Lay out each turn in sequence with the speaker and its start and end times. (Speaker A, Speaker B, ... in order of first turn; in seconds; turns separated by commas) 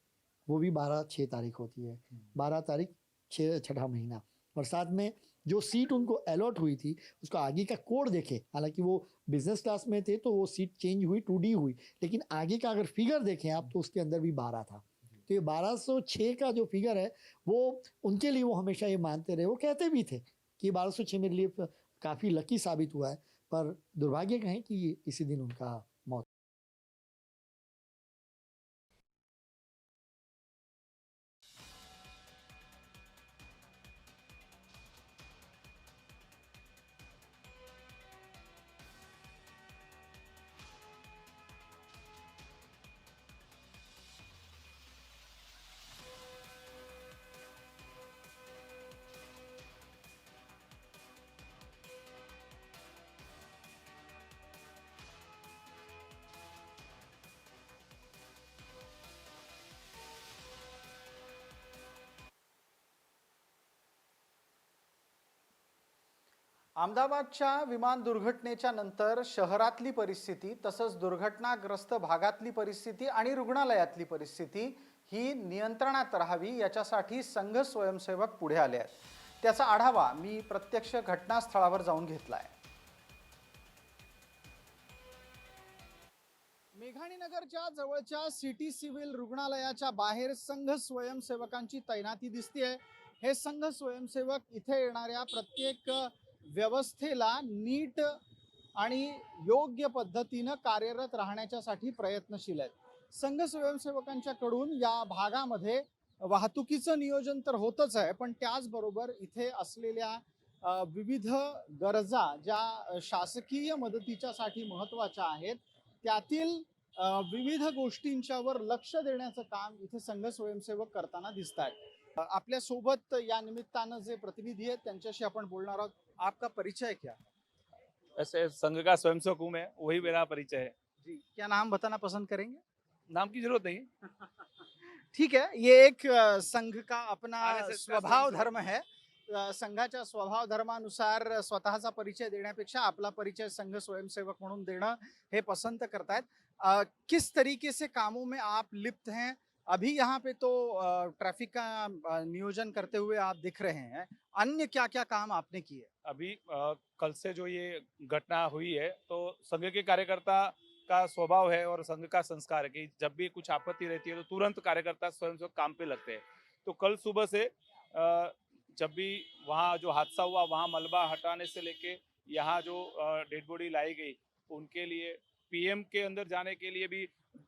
Speaker A: 0.5-26.2, Speaker B: 66.8-82.5, Speaker B: 86.8-98.2, Speaker B: 98.8-127.2, Speaker C: 128.2-130.7, Speaker B: 131.0-132.6, Speaker C: 133.1-133.9, Speaker B: 135.1-155.9, Speaker C: 137.4-138.5, Speaker C: 156.1-177.1